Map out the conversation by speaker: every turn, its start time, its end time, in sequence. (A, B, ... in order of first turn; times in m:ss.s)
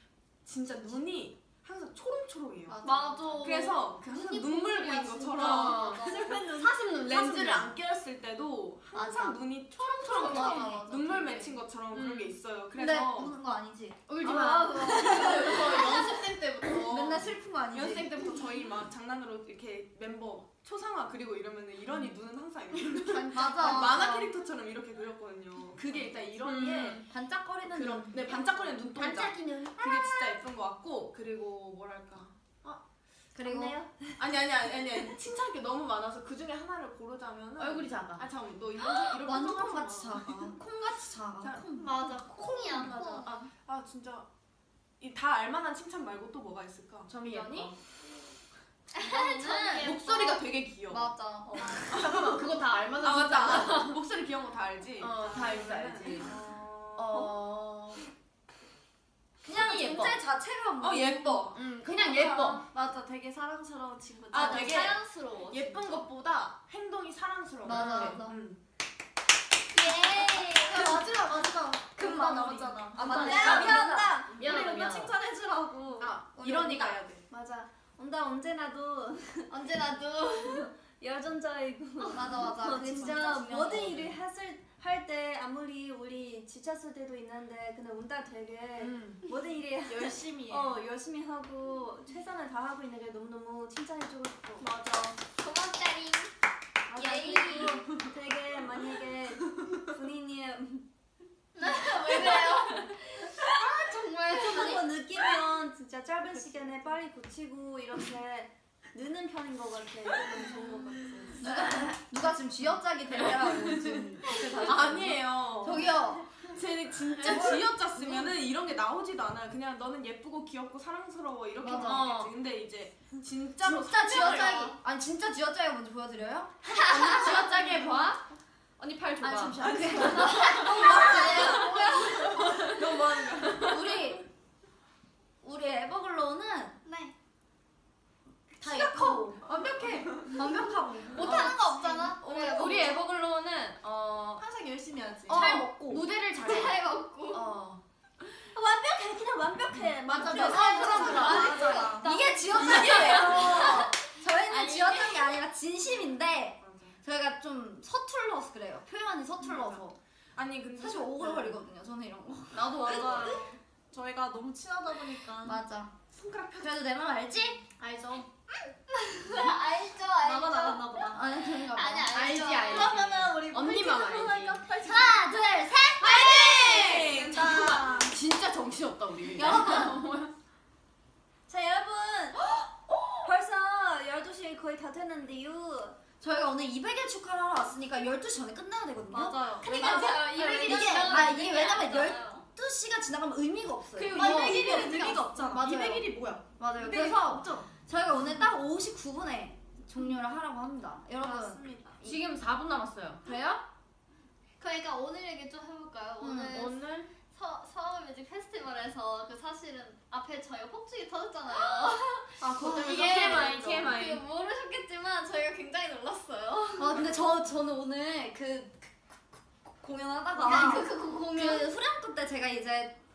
0:00.4-0:02.8 A
0:02.7-0:03.4 B
0:02.8-0:06.3 C
0:03.4-0:13.3 A
0:05.4-0:07.7 D
0:06.0-0:06.8 E
0:08.9-0:11.4 C
0:10.1-0:11.5 B
0:11.9-0:12.4 D
0:12.8-0:16.0 B
0:14.1-0:16.4 D
0:14.2-0:16.4 C
0:14.2-0:14.5 A
0:15.1-0:27.1 A
0:16.7-0:18.3 B
0:23.1-0:24.1 D
0:23.3-0:24.3 B
0:26.4-0:27.0 D
0:27.1-0:29.0 B
0:27.7-0:32.8 A
0:29.0-0:29.7 D
0:29.8-0:30.3 C
0:33.3-0:33.8 B
0:34.2-0:40.6 A
0:37.6-0:38.2 D
0:39.2-0:41.9 B
0:41.8-0:43.4 C
0:42.3-0:44.3 A
0:45.0-0:47.1 A
0:47.1-0:47.8 D
0:47.2-0:47.7 B
0:48.9-0:50.4 C
0:49.0-0:49.9 B
0:49.7-0:51.2 A
0:50.9-0:52.1 B
0:51.6-0:54.0 D
0:51.8-0:57.3 A
0:55.0-0:56.3 D
0:57.0-0:58.0 D
0:59.4-1:01.5 B
0:59.4-1:00.2 D
1:00.8-1:02.6 A
1:01.5-1:02.6 D
1:02.6-1:04.9 E
1:04.3-1:08.6 A
1:04.3-1:06.0 C
1:07.6-1:08.4 B
1:07.7-1:08.2 C
1:09.7-1:11.5 C
1:10.1-1:11.0 B
1:10.6-1:16.2 E
1:12.0-1:14.2 B
1:12.0-1:13.1 A
1:13.1-1:15.1 D
1:16.0-1:17.2 A
1:16.4-1:17.0 B
1:17.3-1:17.7 E
1:18.0-1:19.4 B
1:19.5-1:20.7 C
1:21.0-1:34.7 E
1:22.0-1:22.3 C
1:22.0-1:24.2 B
1:28.8-1:29.2 A
1:30.1-1:30.7 B
1:35.3-1:36.3 C
1:36.9-1:38.8 B
1:36.9-1:37.8 E
1:37.0-1:37.9 C
1:39.3-1:40.8 B
1:41.5-1:45.0 C
1:41.6-1:45.4 B
1:45.2-1:51.7 E
1:51.4-1:56.3 B
1:53.2-1:54.0 D
1:54.6-2:04.7 A
1:57.2-1:58.3 B
2:01.6-2:02.1 B
2:01.8-2:02.3 D
2:03.6-2:07.7 B
2:04.0-2:04.8 C
2:06.7-2:07.2 C
2:06.8-2:08.2 D
2:08.8-2:10.4 D
2:09.2-2:12.7 B
2:09.6-2:11.8 A
2:10.0-2:12.6 C
2:10.6-2:13.2 E
2:12.4-2:12.7 D
2:12.6-2:13.8 A
2:13.6-2:14.2 B
2:15.4-2:16.8 B
2:16.8-2:17.1 C
2:18.6-2:19.3 C
2:18.6-2:19.6 B
2:19.4-2:20.3 D
2:20.2-2:21.6 B
2:21.1-2:23.0 C
2:21.1-2:24.4 D
2:21.4-2:22.2 E
2:24.4-2:25.5 E
2:25.3-2:26.1 B
2:25.3-2:26.8 D
2:26.4-2:27.5 C
2:27.3-2:27.8 D
2:28.3-2:33.8 E
2:30.0-2:32.0 D
2:30.1-2:40.0 B
2:30.2-2:33.9 C
2:32.6-2:33.2 A
2:32.6-2:33.6 D
2:34.5-2:35.4 C
2:36.6-2:37.0 A
2:39.4-2:39.8 A
2:40.3-2:41.6 A
2:40.8-2:43.4 B
2:42.5-2:43.4 D
2:42.6-2:45.6 E
2:45.4-2:46.0 B
2:46.1-2:46.7 A
2:46.6-2:47.7 B
2:47.8-2:48.2 E
2:48.9-2:53.0 C
2:50.2-2:51.2 E
2:51.0-2:52.1 B
2:52.1-2:54.6 D
2:52.7-2:55.4 E
2:54.8-2:57.8 B
2:55.3-2:57.0 C
2:56.0-2:57.8 A
2:56.4-2:58.1 E
2:57.3-3:00.3 D
2:59.3-3:00.0 B
3:01.5-3:03.3 B
3:03.2-3:05.6 E
3:06.1-3:22.2 B
3:09.1-3:11.3 E
3:09.6-3:12.5 C
3:09.9-3:11.5 D
3:14.0-3:17.7 E
3:14.1-3:15.6 C
3:21.2-3:22.0 E
3:22.0-3:23.2 D
3:23.2-3:23.6 B
3:24.6-3:37.0 C
3:26.2-3:26.5 B
3:26.4-3:27.1 D
3:32.4-3:34.2 D
3:32.7-3:33.5 E
3:36.8-3:43.0 B
3:40.4-3:41.7 C